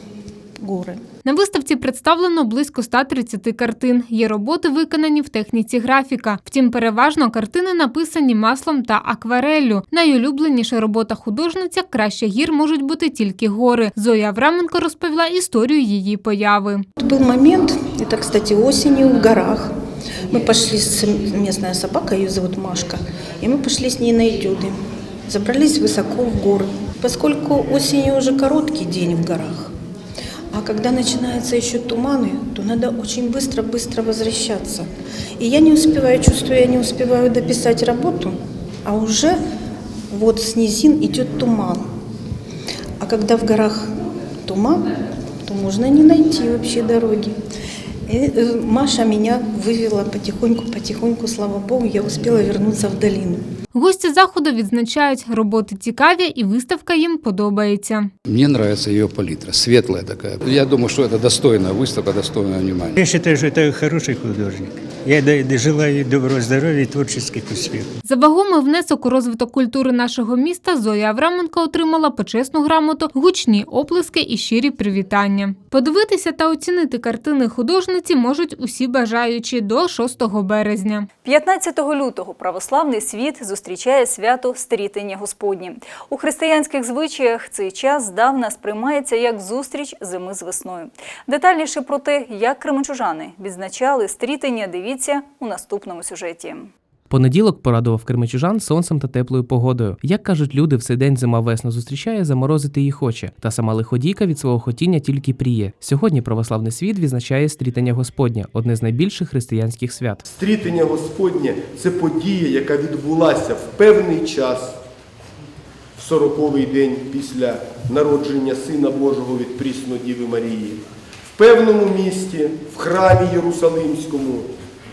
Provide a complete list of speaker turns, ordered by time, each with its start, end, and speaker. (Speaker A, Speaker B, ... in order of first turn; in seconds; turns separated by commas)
Speaker A: 0.6-1.0, Speaker B: 1.2-16.8, Speaker A: 17.0-19.7, Speaker A: 20.3-24.8, Speaker A: 25.3-29.7, Speaker A: 30.5-39.4, Speaker A: 40.1-41.9, Speaker A: 43.0-43.9, Speaker A: 44.4-44.9, Speaker A: 45.5-47.4, Speaker A: 48.1-53.4, Speaker B: 53.7-58.1, Speaker C: 58.2-63.0, Speaker D: 63.0-67.9, Speaker B: 68.0-81.1, Speaker E: 81.2-96.7, Speaker F: 97.1-110.2, Speaker G: 110.2-114.8, Speaker G: 116.0-120.8, Speaker G: 121.3-124.5